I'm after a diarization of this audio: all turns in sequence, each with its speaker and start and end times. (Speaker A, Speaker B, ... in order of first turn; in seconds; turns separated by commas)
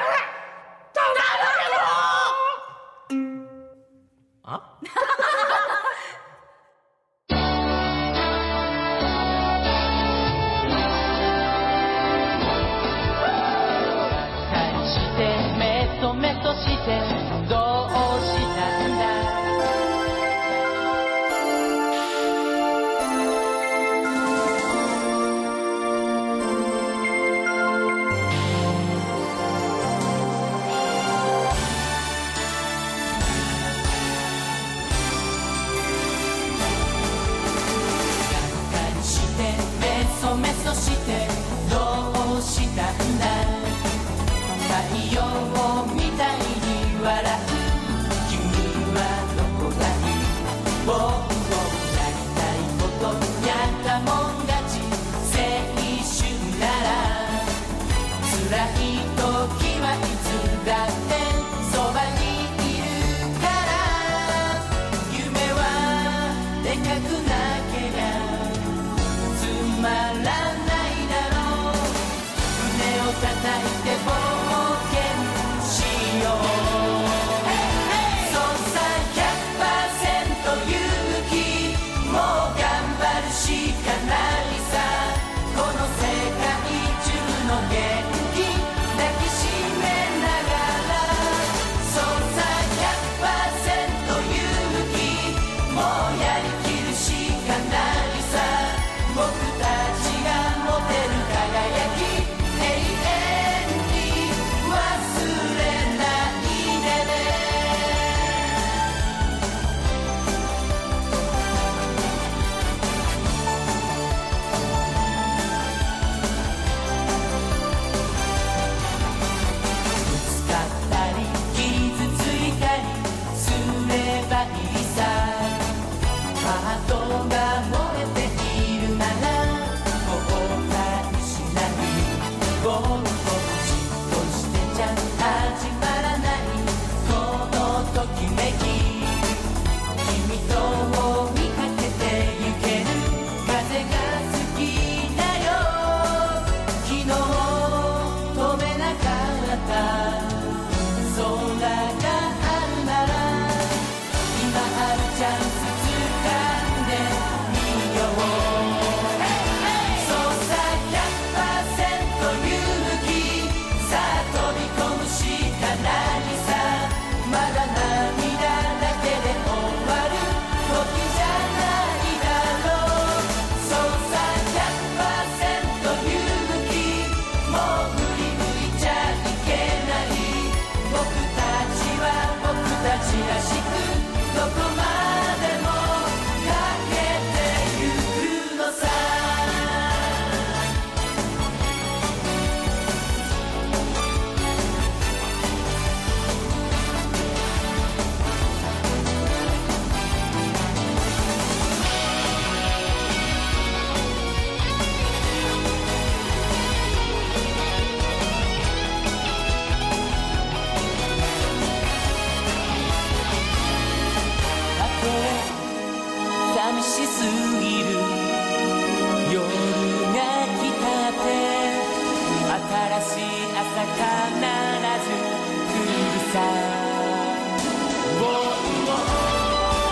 Speaker A: 14.4-19.5, Speaker A: 38.3-43.9, Speaker A: 44.6-57.5, Speaker A: 58.2-108.3, Speaker A: 120.0-125.7, Speaker A: 126.4-139.5, Speaker A: 140.0-190.1, Speaker A: 214.8-215.6, Speaker A: 216.5-218.5, Speaker A: 219.2-221.9, Speaker A: 222.5-227.5, Speaker A: 228.1-229.6